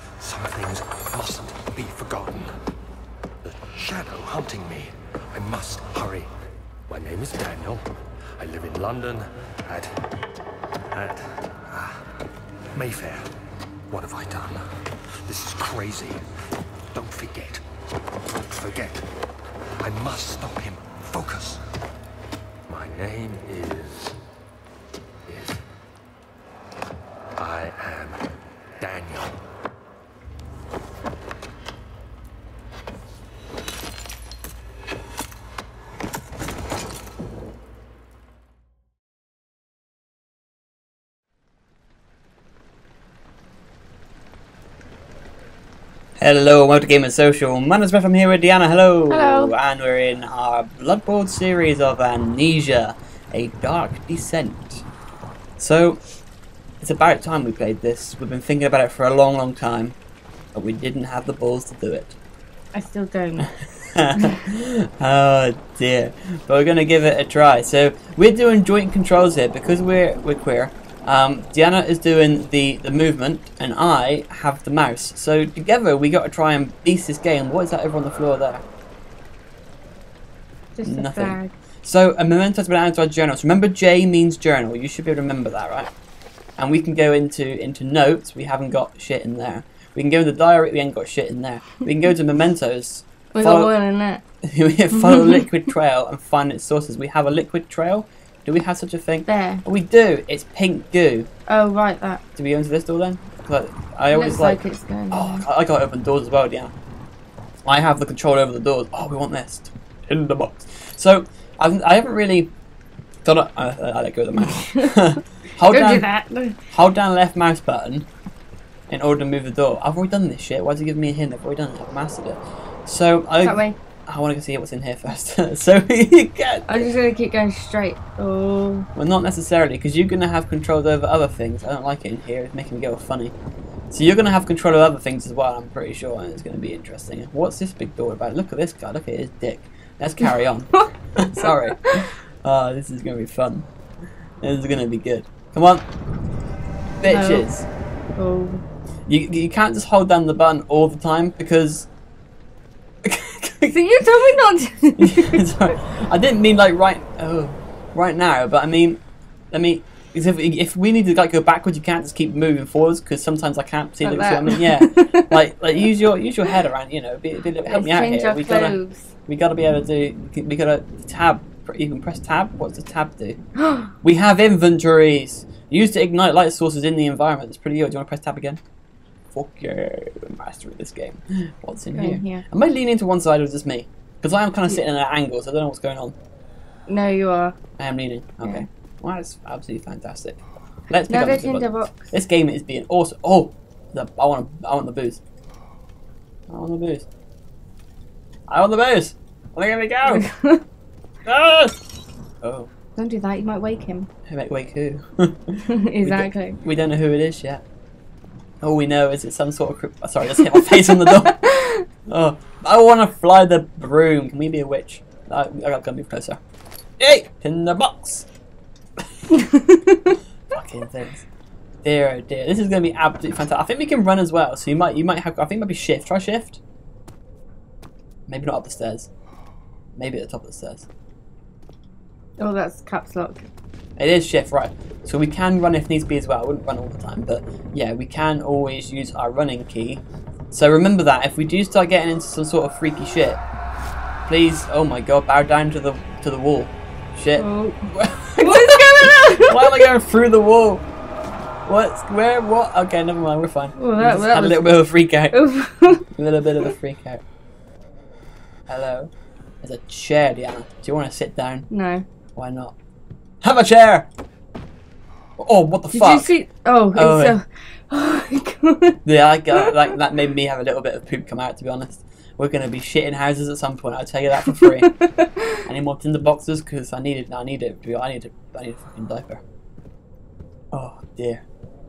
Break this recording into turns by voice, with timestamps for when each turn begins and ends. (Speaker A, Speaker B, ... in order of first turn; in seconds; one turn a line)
Speaker A: 0.2-2.5
Speaker A: 3.4-6.3
Speaker A: 6.9-7.8
Speaker A: 8.4-9.9
Speaker A: 10.9-12.0
Speaker A: 12.7-13.2
Speaker A: 13.9-14.6
Speaker A: 15.2-16.2
Speaker A: 16.9-17.6
Speaker A: 18.4-19.0
Speaker A: 19.8-21.6
Speaker A: 22.7-24.1
Speaker A: 25.2-25.6
Speaker A: 27.4-28.2
Speaker A: 28.8-29.3
Speaker B: 46.2-54.9
Speaker C: 49.1-49.5
Speaker B: 55.6-56.0
Speaker B: 56.8-60.0
Speaker B: 60.5-62.2
Speaker C: 62.7-63.5
Speaker B: 63.4-78.6
Speaker C: 80.8-81.5
Speaker B: 80.8-85.9
Speaker B: 86.6-93.7
Speaker C: 93.3-94.2
Speaker B: 94.4-101.3
Speaker C: 95.0-95.4
Speaker C: 99.2-99.6
Speaker C: 101.5-102.2
Speaker B: 102.3-106.7
Speaker C: 104.1-105.4
Speaker B: 107.6-112.5
Speaker B: 113.2-116.1
Speaker C: 114.5-114.9
Speaker C: 115.7-116.6
Speaker B: 116.7-118.1
Speaker B: 118.9-126.9
Speaker C: 123.4-123.8
Speaker C: 126.7-128.9
Speaker B: 128.9-133.3
Speaker B: 133.9-143.7
Speaker B: 144.4-145.9
Speaker B: 147.0-147.7
Speaker C: 147.0-147.5
Speaker C: 148.2-148.6
Speaker B: 149.1-151.9
Speaker B: 153.0-153.8
Speaker C: 153.7-155.5
Speaker B: 155.0-159.0
Speaker B: 159.5-173.4
Speaker C: 164.0-165.3
Speaker C: 167.6-169.1
Speaker C: 173.6-173.9
Speaker B: 174.0-178.6
Speaker B: 179.3-186.1
Speaker C: 181.9-182.4
Speaker C: 186.9-187.6
Speaker B: 187.8-195.2
Speaker C: 191.1-192.1
Speaker B: 196.5-197.1
Speaker B: 198.5-200.3
Speaker C: 200.1-200.6
Speaker B: 201.2-201.8
Speaker B: 202.4-202.7
Speaker C: 202.9-204.1
Speaker B: 204.3-207.6
Speaker C: 205.7-206.6
Speaker B: 208.6-211.4
Speaker C: 211.1-211.8
Speaker B: 212.1-216.4
Speaker B: 217.0-218.3
Speaker C: 219.3-220.2
Speaker B: 220.5-221.2
Speaker B: 221.8-226.6
Speaker B: 228.3-229.1
Speaker B: 229.9-230.9
Speaker C: 232.4-233.5
Speaker B: 234.0-243.4
Speaker B: 244.3-250.8
Speaker C: 247.4-247.8
Speaker C: 248.4-249.8
Speaker B: 251.7-257.2
Speaker C: 253.8-256.0
Speaker B: 258.7-259.1
Speaker B: 259.6-261.7
Speaker C: 261.7-262.0
Speaker B: 262.4-262.7
Speaker B: 263.4-264.1
Speaker B: 265.4-266.3
Speaker C: 265.9-269.0
Speaker B: 266.9-267.4
Speaker B: 269.0-274.9
Speaker C: 274.5-275.6
Speaker B: 275.6-279.4
Speaker B: 280.7-281.4